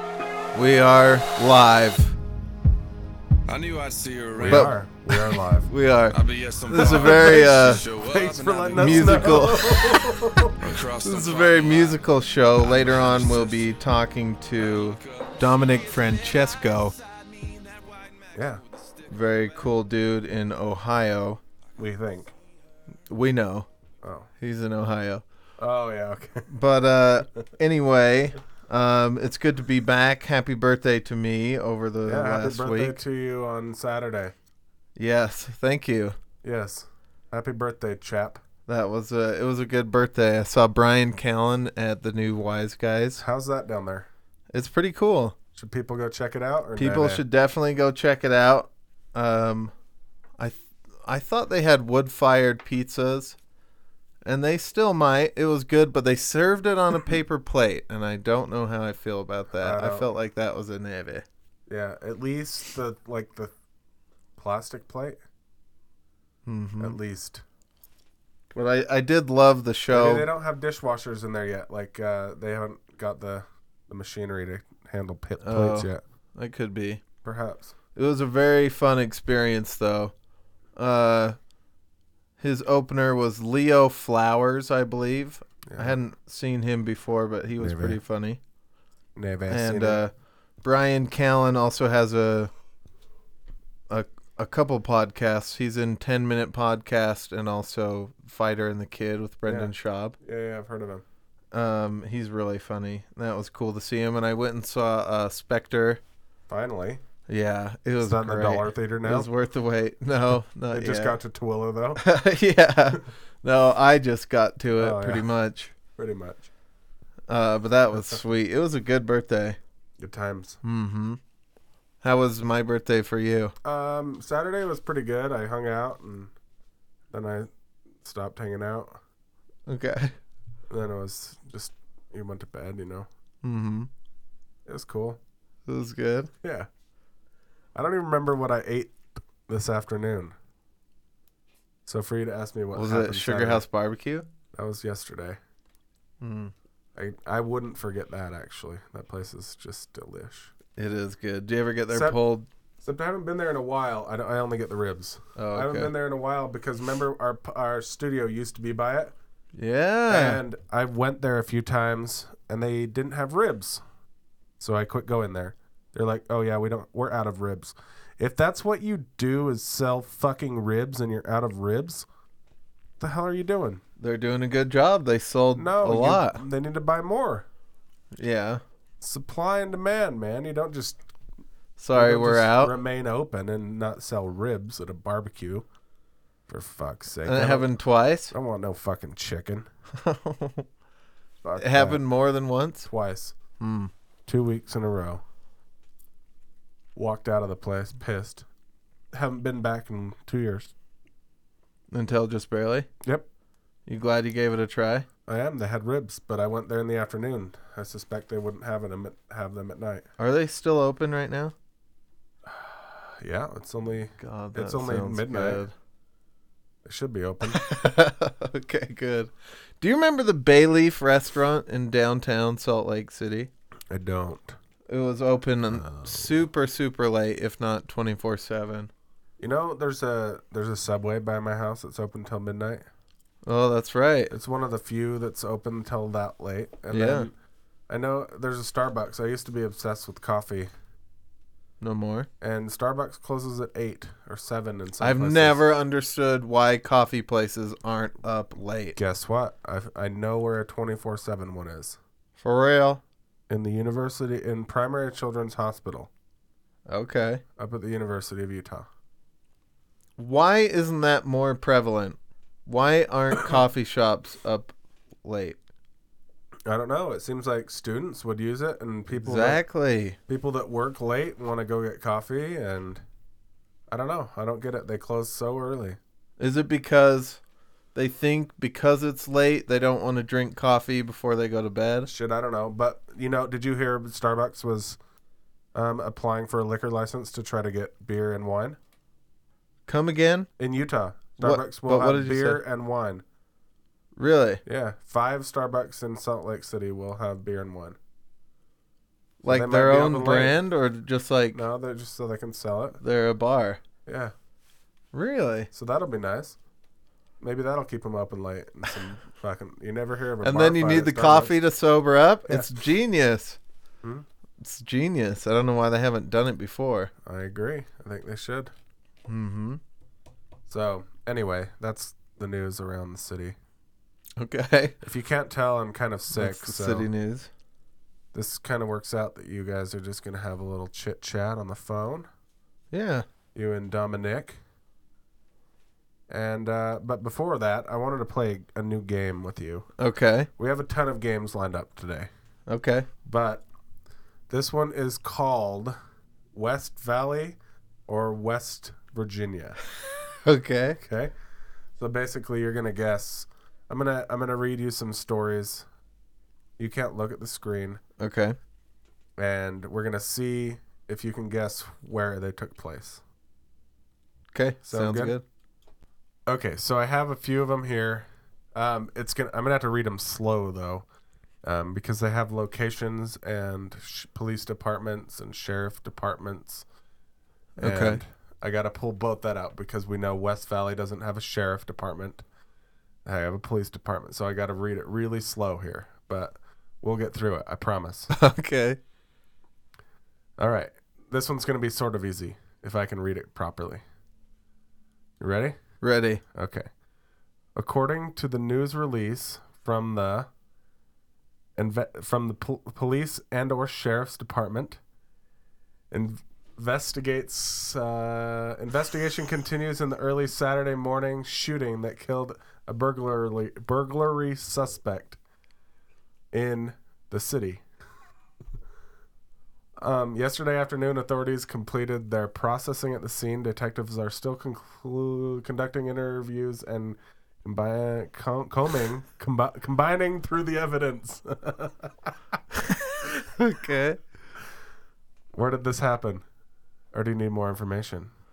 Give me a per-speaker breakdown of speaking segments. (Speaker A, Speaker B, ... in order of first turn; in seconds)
Speaker A: 0.5-2.1, 4.4-4.8, 5.7-6.2, 6.7-7.8, 8.7-9.8, 11.0-16.9, 19.1-21.4, 23.1-23.7, 24.4-25.2, 26.5-33.0, 35.0-36.1, 38.7-43.2, 44.5-45.4, 46.8-49.7, 50.4-53.4, 54.2-61.2, 66.5-67.0, 68.5-70.3, 75.4-77.0, 77.9-80.1, 80.8-81.4, 82.4-88.4, 89.5-92.5, 93.9-100.2, 101.5-106.0, 107.3-111.2, 112.0-115.7, 117.3-119.6, 120.6-121.2, 122.0-123.5, 129.7-130.2, 133.4-133.9, 135.7-136.3, 142.7-144.2, 146.2-146.5, 150.8-152.5, 155.3-155.9, 159.6-160.4, 174.0-176.4, 178.2-178.6, 181.8-182.7, 187.2-188.3, 190.0-190.7, 191.6-192.9, 193.6-193.9, 201.9-202.9, 203.8-205.1, 210.2-211.5, 214.2-215.7, 217.5-223.5, 224.9-228.9, 233.4-234.3, 236.9-237.3, 241.8-242.3, 245.0-249.0, 252.4-253.0, 256.9-257.4, 260.2-265.6, 269.1-270.2, 276.4-277.4, 277.9-282.1, 289.9-290.5, 291.4-292.6, 294.2-294.6, 299.4-301.6, 303.0-303.8, 305.1-305.7, 310.4-313.6, 314.6-317.1, 319.3-319.8, 324.4-325.0, 326.3-327.5, 332.9-333.2, 340.0-340.5, 342.7-343.1, 350.4-351.0, 358.2-358.6, 364.5-365.4, 377.8-378.2, 388.3-389.0, 396.0-396.4, 433.6-434.2
Speaker B: 3.5-4.7, 6.1-13.8, 14.6-19.9
Speaker C: 4.4-5.7, 6.7-10.7, 18.3-18.6, 21.8-22.3, 24.0-24.3, 25.6-26.5, 32.0-34.3, 36.4-38.4, 43.2-44.1, 45.5-47.2, 59.5-60.1, 61.7-63.5, 64.4-65.2, 66.8-67.4, 69.9-76.0, 77.2-77.7, 85.7-86.0, 87.6-88.0, 89.1-90.0, 99.5-101.0, 106.5-107.0, 108.0-109.3, 110.7-112.0, 114.8-115.3, 116.0-116.5, 120.0-120.6, 123.6-126.3, 127.1-129.0, 130.7-133.1, 134.7-135.2, 136.4-136.7, 137.7-140.3, 141.8-143.6, 144.5-145.4, 146.9-150.5, 151.9-152.2, 152.8-159.1, 160.1-163.8, 164.6-172.1, 173.0-173.8, 175.5-177.4, 179.0-181.0, 181.9-185.7, 186.5-187.7, 188.3-189.7, 191.4-192.0, 192.8-193.4, 194.3-195.2, 196.9-198.4, 199.1-200.7, 205.3-210.0, 212.4-215.6, 216.8-217.6, 223.9-224.6, 225.7-226.4, 229.4-232.8, 234.3-237.3, 237.9-240.7, 242.4-245.6, 248.9-252.0, 253.5-256.1, 257.6-258.9, 266.6-269.6, 270.3-273.0, 273.9-276.0, 282.1-285.0, 285.7-288.8, 290.6-293.2, 294.6-298.0, 299.4-300.6, 301.5-303.0, 304.1-304.3, 305.7-306.6, 307.4-311.6, 312.5-312.8, 317.2-318.7, 320.7-323.6, 325.0-327.1, 328.3-332.3, 333.5-334.6, 336.3-339.9, 340.6-342.3, 343.2-343.6, 344.5-345.9, 346.5-349.8, 351.0-351.3, 352.0-355.9, 356.8-358.0, 359.4-363.2, 364.9-365.4, 366.5-371.0, 371.6-376.8, 377.8-382.4, 383.2-388.3, 390.6-394.0, 395.4-395.8, 396.4-396.9, 397.7-400.5, 401.8-405.0, 406.1-415.4, 416.5-417.8, 420.0-432.3, 435.5-436.4, 437.1-438.3